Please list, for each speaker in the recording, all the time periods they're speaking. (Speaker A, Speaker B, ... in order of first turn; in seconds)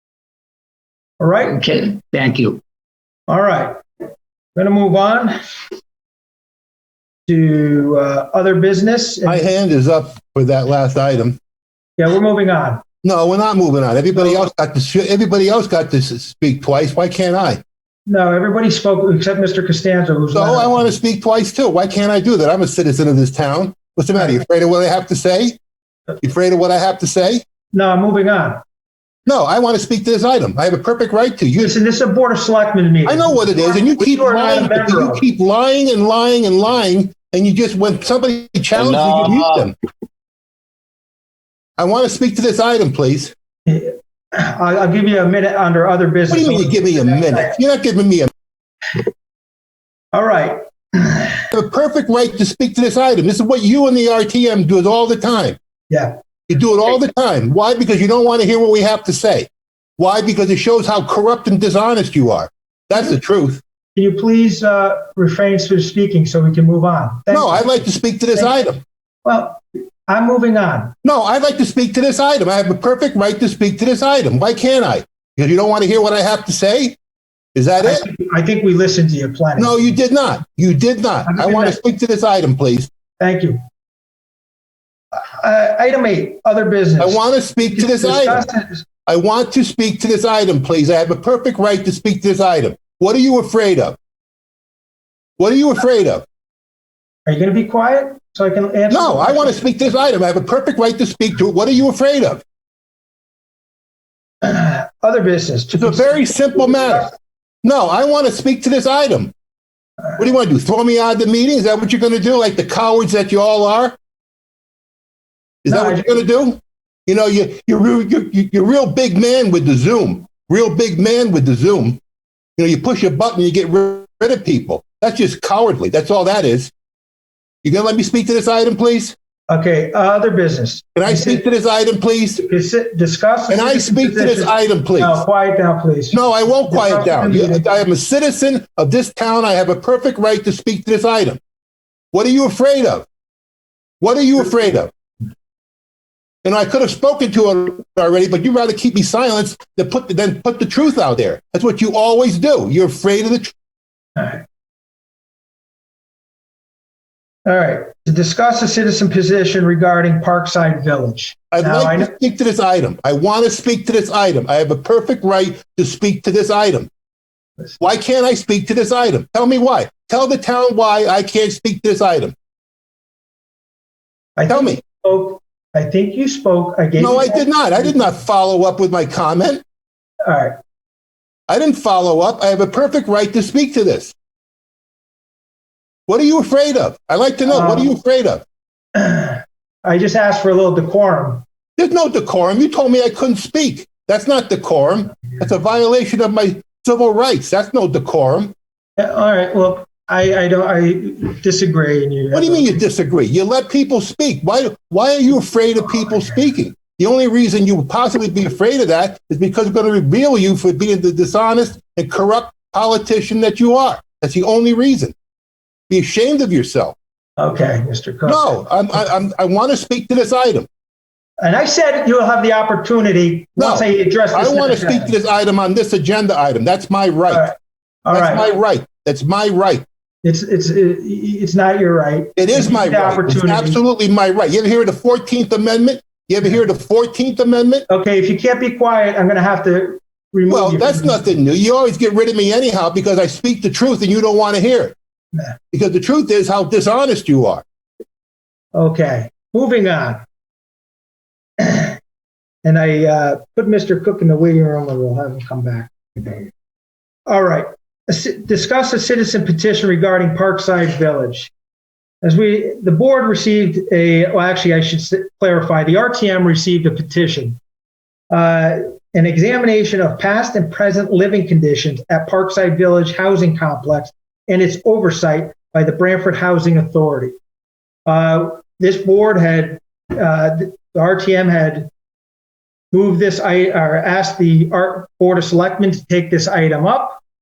Speaker A: 1.2-1.7, 3.3-3.8, 4.5-5.4, 7.3-9.5, 12.0-12.8, 14.2-14.4, 18.1-20.9, 27.7-28.6, 31.6-35.2, 43.6-47.6, 50.1-51.4, 55.9-56.2, 63.9-67.8, 69.2-70.9, 77.8-80.0, 81.2-81.8, 83.2-83.6, 85.1-87.2, 87.7-88.8, 97.3-99.7, 104.4-106.2, 115.7-116.1, 129.5-131.4, 132.4-137.7, 154.2-154.4, 157.4-162.1, 174.4-178.1, 180.2-180.6, 187.4-187.9, 188.9-191.4, 199.0-202.8, 206.0-206.3, 217.4-219.0, 221.4-225.1, 227.3-228.5, 230.2-233.8, 237.9-241.2, 248.7-250.2, 251.6-252.0, 252.6-256.5, 257.3-261.5, 262.2-267.6, 268.3-277.4, 278.1-281.9, 282.9-287.2
Speaker B: 1.5-2.6, 38.7-39.7
Speaker C: 9.2-11.4, 13.0-17.6, 20.3-25.6, 26.2-27.4, 29.2-31.7, 33.0-39.8, 41.8-43.3, 46.3-48.3, 51.5-55.6, 56.5-63.6, 67.3-68.8, 71.0-77.0, 77.5-78.0, 79.6-82.9, 87.0-88.4, 89.1-94.0, 95.4-96.2, 98.9-102.4, 105.7-107.1, 107.6-109.3, 110.2-114.0, 115.6-122.0, 122.6-126.7, 127.6-129.1, 130.9-132.4, 133.5-135.2, 136.1-141.4, 142.1-143.1, 144.0-144.9, 146.4-153.5, 161.5-166.9, 167.8-172.3, 174.5-174.8, 177.0-179.6, 181.5-184.1, 186.1-188.4, 191.8-198.5, 202.3-215.1, 215.9-216.9, 218.2-220.7, 223.6-227.5, 228.1-229.8, 232.3-237.8, 240.5-244.9, 245.7-247.6